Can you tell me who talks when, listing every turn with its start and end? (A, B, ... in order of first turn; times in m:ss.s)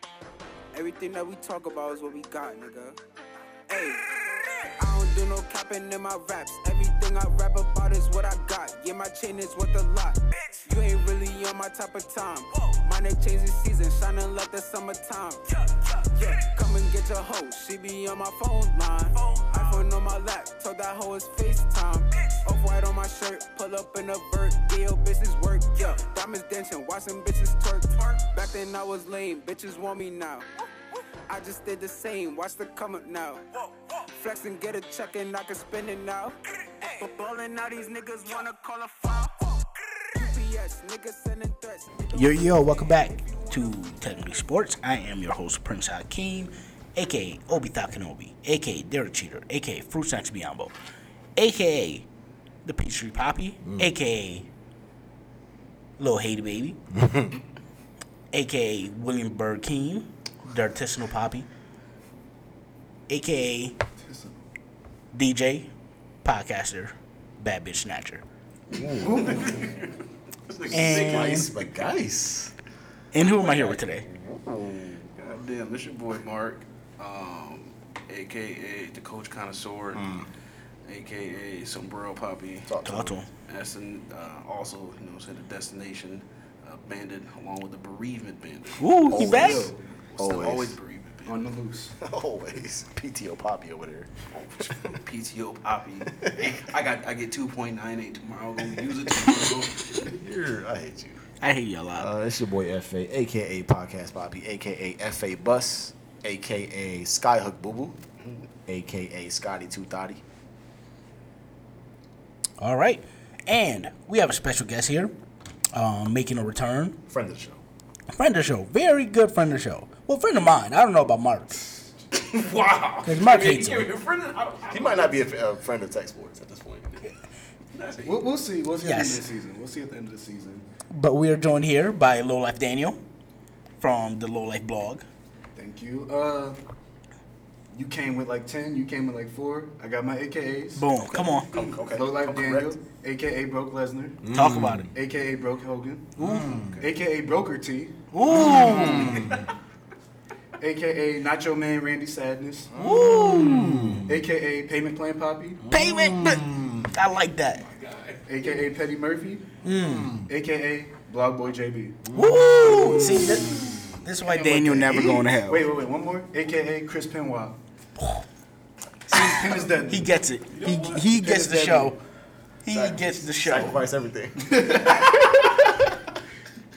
0:00.7-0:03.0 A
0:03.7-0:30.5 A
0:31.3-0:42.4 A
0:42.1-0:50.7 B
0:51.4-0:52.0 B
0:52.6-0:54.5 B
0:53.6-0:53.9 C
0:56.0-0:56.8 B
0:56.9-0:57.4 C
0:58.3-1:01.5 B
1:03.1-1:03.8 B
1:04.0-1:04.4 D
1:05.1-1:05.7 B
1:06.2-1:08.2 B
1:08.7-1:09.7 C
1:09.0-1:09.9 E
1:10.5-1:11.6 E
1:10.6-1:12.5 C
1:10.7-1:11.5 B
1:13.1-1:14.0 B
1:13.2-1:15.1 C
1:15.1-1:20.2 E
1:19.9-1:20.3 C
1:20.8-1:22.7 E
1:22.6-1:23.2 C
1:22.8-1:23.3 B
1:23.4-1:28.8 E
1:28.8-1:29.7 B
1:29.1-1:30.8 C
1:29.1-1:29.8 D
1:30.1-1:31.4 E
1:31.2-1:32.0 D
1:32.0-1:34.1 C
1:34.6-1:40.0 E
1:36.1-1:36.6 C
1:40.0-1:41.2 C
1:41.4-1:42.1 B
1:41.9-1:48.0 C
1:48.7-1:50.2 C
1:52.6-1:55.1 B
1:55.7-1:57.0 B
1:57.1-1:57.6 C
1:58.1-2:01.8 B
2:02.1-2:05.3 E
2:03.0-2:03.9 B
2:04.7-2:07.1 C
2:07.7-2:08.2 E
2:08.0-2:10.6 D
2:08.8-2:09.2 B
2:10.9-2:13.0 B
2:13.8-2:15.0 B
2:15.6-2:16.6 D
2:17.7-2:20.9 D
2:20.8-2:21.6 B
2:21.0-2:22.7 C
2:21.9-2:24.2 D
2:24.2-2:24.9 C
2:24.3-2:24.9 B
2:24.9-2:29.3 D
2:26.2-2:26.8 C
2:26.5-2:26.9 E
2:28.1-2:29.2 B
2:28.3-2:29.4 C
2:28.8-2:29.4 E
2:30.6-2:32.7 D
2:32.7-2:34.1 C
2:32.8-2:33.7 B
2:34.0-2:35.6 D
2:35.6-2:36.9 C
2:35.7-2:37.6 B
2:37.6-2:38.2 E
2:38.2-2:39.6 D
2:39.6-2:40.3 C
2:39.7-2:40.1 B
2:40.2-2:42.0 D
2:42.0-2:43.9 C
2:42.1-2:45.7 B
2:42.7-2:43.5 D
2:44.2-2:47.6 D
2:49.1-2:52.0 D
2:49.1-2:52.0 B
2:52.6-2:53.8 B
2:52.7-2:55.6 C
2:54.6-2:55.4 D